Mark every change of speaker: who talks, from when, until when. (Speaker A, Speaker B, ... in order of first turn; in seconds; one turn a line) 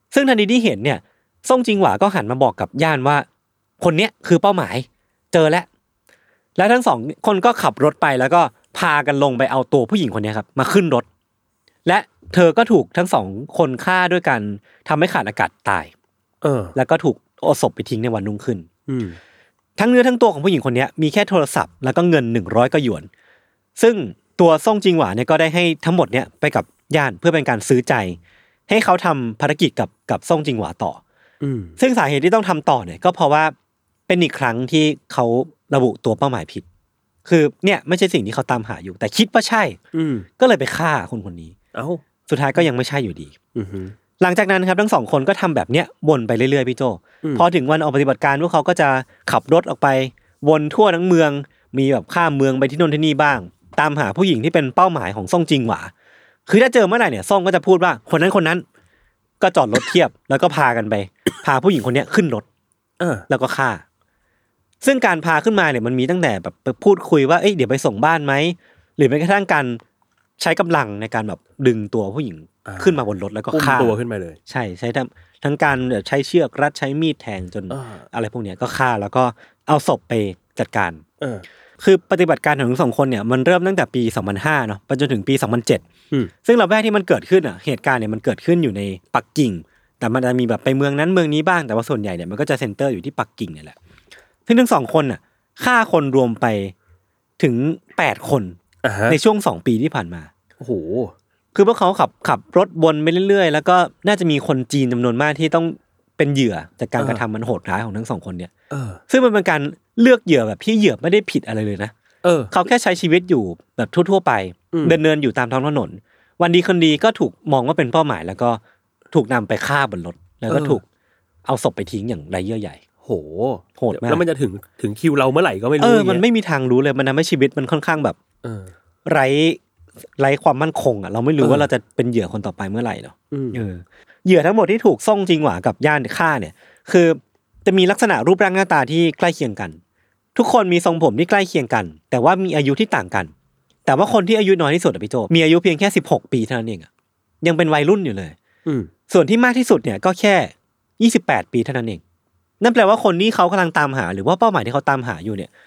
Speaker A: 0.1-3.2
Speaker A: 3.8-5.7
Speaker A: 6.6-11.1
Speaker A: 11.8-15.9
Speaker B: 16.4-16.8
Speaker A: 16.8-18.7
Speaker B: 18.9-19.2
Speaker A: 19.8-23.1
Speaker A: 23.8-31.0
Speaker B: 31.4-31.8
Speaker A: 31.8-33.5
Speaker A: 34.1-36.6
Speaker A: 37.2-39.8
Speaker B: 39.9-40.3
Speaker A: 40.4-41.5
Speaker B: 41.7-42.0
Speaker A: 42.3-43.3
Speaker B: 43.5-44.0
Speaker A: 44.2-55.9
Speaker A: 56.5-58.6
Speaker A: 59.4-62.5
Speaker B: 63.0-63.3
Speaker A: 63.3-63.8
Speaker A: 64.8-69.8
Speaker A: 70.4-74.0
Speaker B: 72.7-73.0
Speaker B: 73.5-74.4
Speaker A: 74.5-81.0
Speaker B: 77.7-78.0
Speaker A: 81.8-85.8
Speaker A: 86.4-93.8
Speaker A: 94.5-96.7
Speaker A: 97.4-98.6
Speaker B: 98.8-99.2
Speaker A: 99.1-100.3
Speaker B: 100.6-101.1
Speaker A: 101.5-108.5
Speaker B: 107.0-107.2
Speaker B: 108.7-109.0
Speaker A: 109.1-111.9
Speaker B: 112.2-112.5
Speaker A: 112.5-118.6
Speaker B: 114.7-115.0
Speaker A: 119.1-120.8
Speaker B: 120.5-120.8
Speaker A: 121.5-122.8
Speaker B: 123.0-126.2
Speaker A: 123.8-124.2
Speaker A: 125.8-128.2
Speaker B: 128.4-128.7
Speaker A: 129.1-129.6
Speaker A: 130.2-139.8
Speaker B: 131.4-131.7
Speaker B: 133.3-133.6
Speaker A: 140.3-143.3
Speaker A: 143.9-146.9
Speaker A: 147.4-148.4
Speaker B: 148.6-148.9
Speaker A: 149.1-152.0
Speaker A: 152.6-155.5